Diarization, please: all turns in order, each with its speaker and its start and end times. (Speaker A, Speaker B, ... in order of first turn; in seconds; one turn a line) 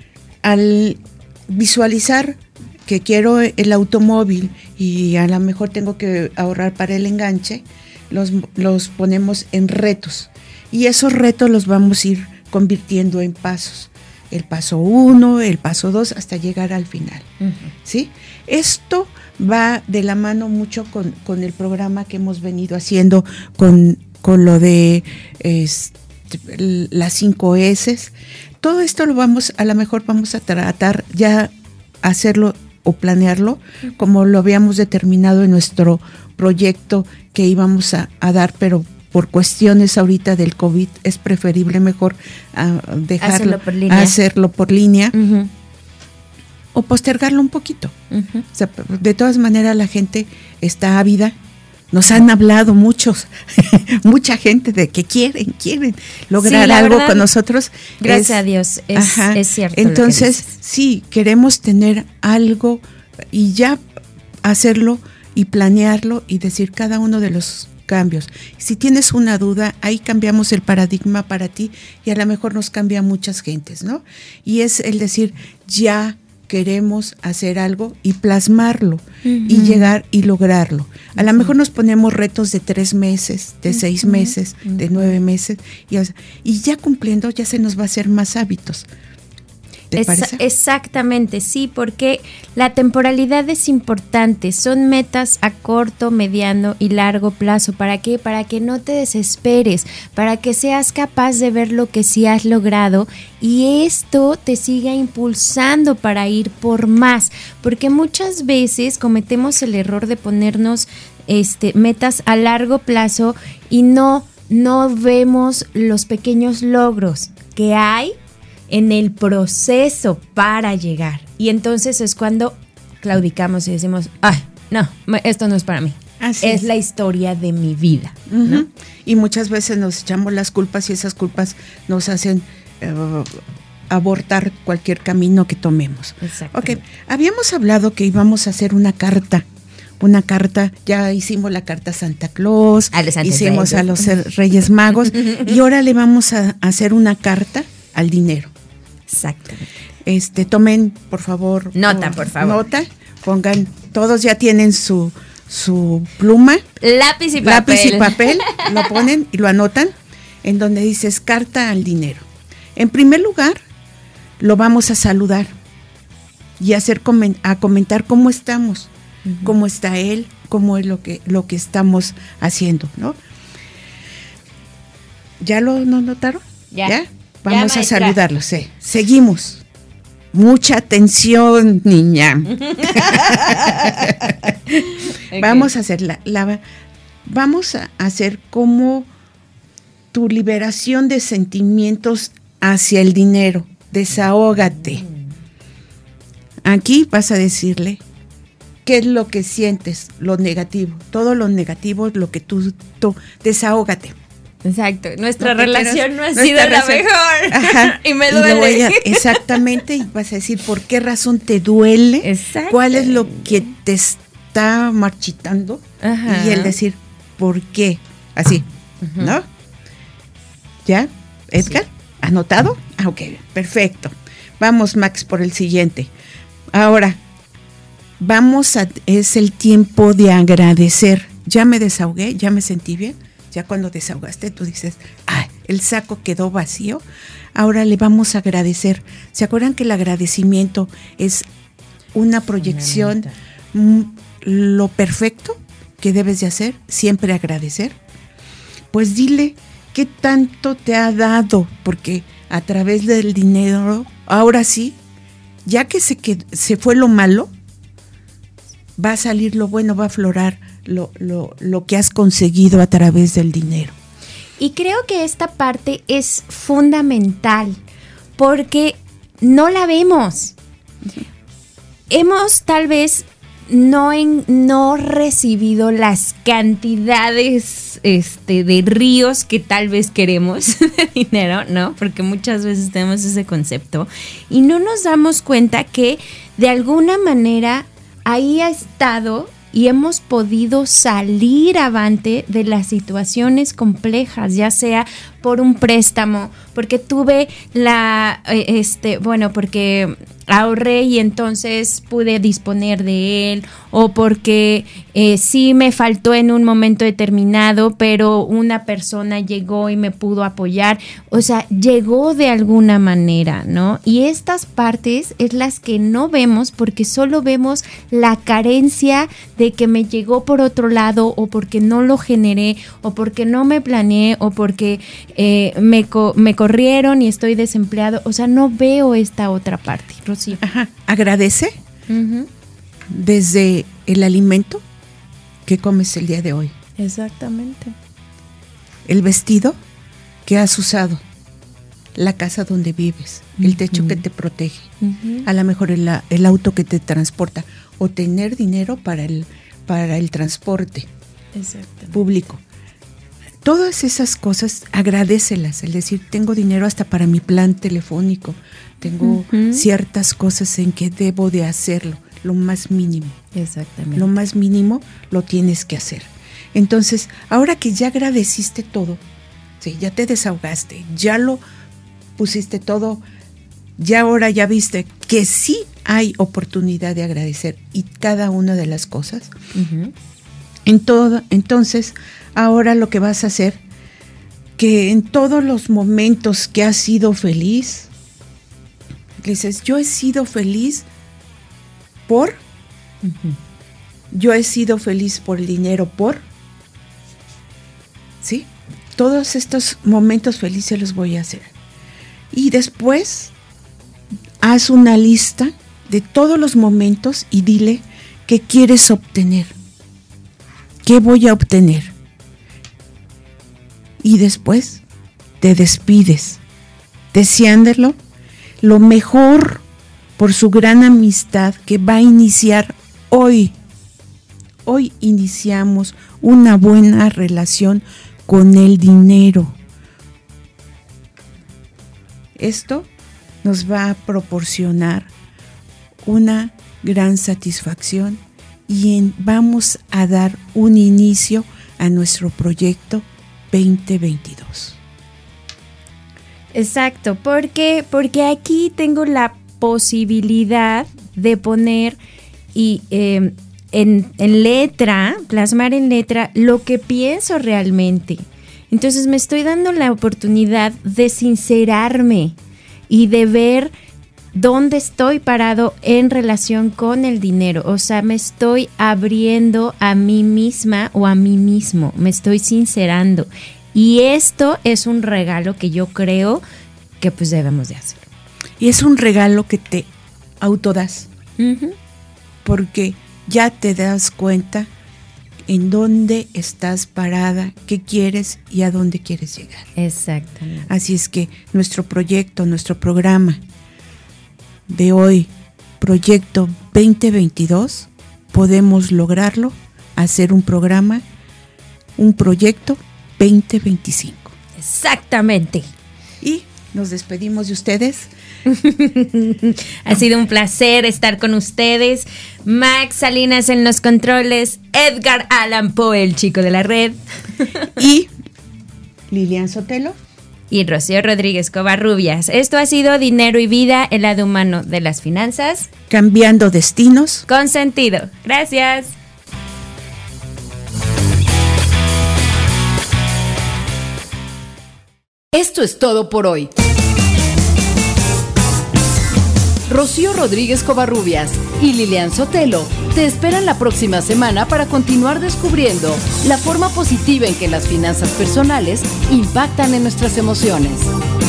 Speaker A: 0.4-17.3
Speaker A: 17.8-45.1
Speaker B: 43.2-44.1
Speaker B: 45.1-45.5
Speaker A: 46.7-47.9
Speaker B: 48.1-48.4
Speaker A: 48.5-51.4
Speaker A: 51.9-58.4
Speaker B: 56.4-57.2
Speaker B: 58.0-60.5
Speaker A: 58.9-63.8
Speaker A: 64.4-88.9
Speaker B: 79.2-79.9
Speaker B: 81.2-81.5
Speaker B: 84.0-85.0
Speaker A: 89.9-90.4
Speaker B: 90.0-118.1
Speaker B: 118.7-128.6
Speaker A: 126.2-126.7
Speaker A: 128.3-139.4
Speaker B: 136.2-136.8
Speaker A: 140.0-148.5
Speaker B: 142.9-144.0
Speaker B: 145.2-145.5
Speaker B: 149.1-149.7
Speaker A: 150.0-156.6
Speaker B: 151.8-152.6
Speaker B: 156.8-159.0
Speaker A: 157.4-163.6
Speaker A: 164.4-165.5
Speaker A: 166.6-168.9
Speaker B: 169.2-169.5
Speaker A: 169.4-173.2
Speaker A: 175.4-179.6
Speaker B: 177.5-178.2
Speaker A: 180.3-184.5
Speaker B: 182.6-185.7
Speaker A: 185.3-186.6
Speaker A: 187.2-189.1
Speaker A: 190.1-195.0
Speaker A: 196.6-198.0
Speaker A: 198.8-204.1
Speaker B: 204.6-209.8
Speaker A: 205.4-218.7
Speaker B: 212.2-213.5
Speaker B: 216.0-216.7
Speaker B: 219.0-219.3
Speaker A: 219.2-219.4
Speaker A: 220.8-226.1
Speaker A: 226.7-227.2
Speaker A: 228.2-237.0
Speaker A: 237.5-241.5
Speaker A: 242.1-248.0
Speaker A: 248.9-255.0
Speaker A: 255.6-257.5
Speaker A: 259.0-263.9
Speaker B: 264.6-267.8
Speaker B: 268.4-270.5
Speaker B: 272.1-330.6
Speaker A: 330.6-331.8
Speaker B: 332.1-332.5
Speaker A: 333.1-334.8
Speaker A: 335.6-336.7
Speaker B: 337.0-337.9
Speaker A: 339.1-339.8
Speaker A: 340.4-341.2
Speaker A: 342.1-344.9
Speaker B: 343.6-344.2
Speaker B: 345.0-345.5
Speaker A: 345.4-351.1
Speaker B: 351.5-352.1
Speaker A: 352.1-352.6
Speaker A: 353.6-363.4
Speaker B: 359.2-359.8
Speaker B: 363.5-364.2
Speaker A: 364.1-369.2
Speaker A: 369.8-371.6
Speaker A: 372.4-373.2
Speaker A: 374.0-379.5
Speaker B: 379.7-380.1
Speaker A: 380.9-383.8
Speaker A: 384.8-388.1
Speaker A: 389.4-391.1
Speaker A: 392.3-392.6
Speaker B: 393.2-393.5
Speaker A: 394.3-396.4
Speaker A: 398.4-401.7
Speaker A: 402.5-403.5
Speaker A: 404.6-409.7
Speaker A: 411.0-412.1
Speaker A: 414.2-415.0
Speaker A: 415.6-416.6
Speaker A: 417.3-418.1
Speaker A: 418.8-419.8
Speaker A: 420.4-423.7
Speaker A: 424.8-429.8
Speaker A: 432.6-433.1
Speaker A: 433.6-435.3
Speaker A: 436.2-445.0
Speaker B: 446.7-452.2
Speaker B: 452.7-462.6
Speaker B: 463.1-463.9
Speaker B: 464.5-476.6
Speaker B: 477.2-478.2
Speaker A: 478.8-480.1
Speaker A: 480.6-481.3
Speaker B: 481.6-481.9
Speaker A: 482.6-484.9
Speaker A: 485.7-489.9
Speaker B: 489.9-490.9
Speaker A: 490.9-493.6
Speaker A: 494.9-501.2
Speaker A: 502.2-504.5
Speaker B: 504.8-505.9
Speaker A: 506.4-508.3
Speaker B: 508.7-517.2
Speaker A: 518.0-518.3
Speaker A: 519.3-520.2
Speaker B: 520.7-525.9
Speaker A: 526.1-527.5
Speaker B: 527.5-529.1
Speaker C: 535.5-536.7
Speaker C: 539.9-551.1